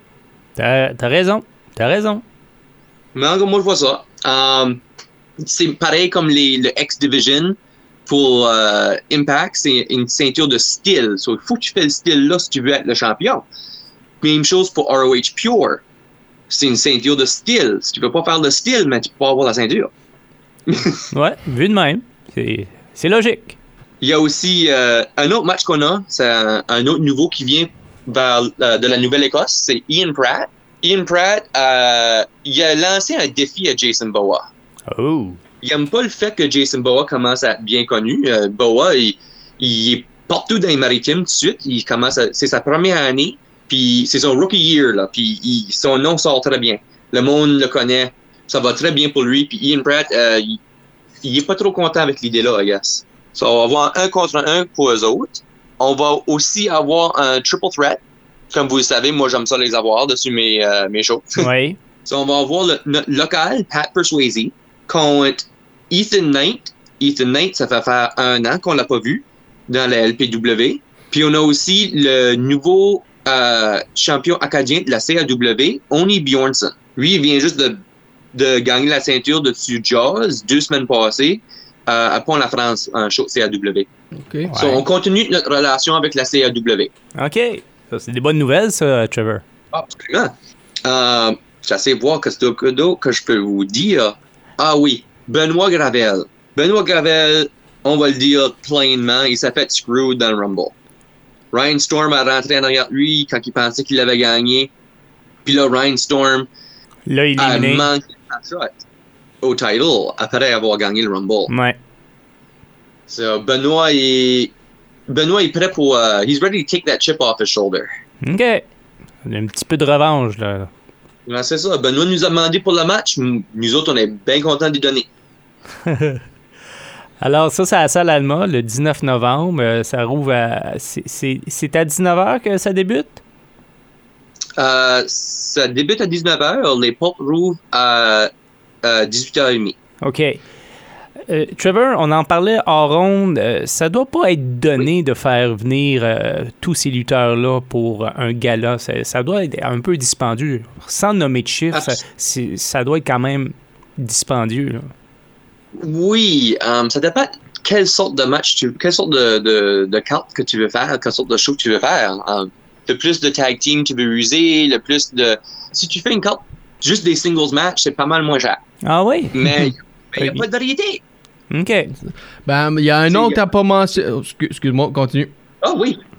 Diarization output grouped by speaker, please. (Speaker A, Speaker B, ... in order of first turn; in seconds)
Speaker A: 0.6-2.2, 21.1-23.6, 34.9-35.4, 61.4-61.8, 84.5-84.9, 87.2-89.4, 107.1-107.9, 111.5-111.8, 118.2-118.7, 119.2-120.7, 125.8-126.2, 127.2-133.2, 140.0-140.4, 141.3-154.9, 168.8-169.7, 171.5-171.9
Speaker B: 3.1-4.8, 5.4-13.5, 14.2-15.8, 16.5-19.9, 20.7-21.1, 24.0-34.5, 35.6-50.6, 51.2-58.0, 58.5-61.5, 62.1-77.8, 78.3-83.9, 84.5-86.9, 89.7-90.3, 90.8-100.7, 101.5-104.7, 105.5-106.5, 107.4-108.8, 109.4-111.5, 113.1-114.5, 115.1-117.9, 121.3-125.1, 134.6-138.3, 138.8-139.8, 151.7-152.0, 155.8-168.6, 169.3-171.0, 173.1-173.4, 175.6-176.0
Speaker C: 84.2-84.5, 172.4-175.3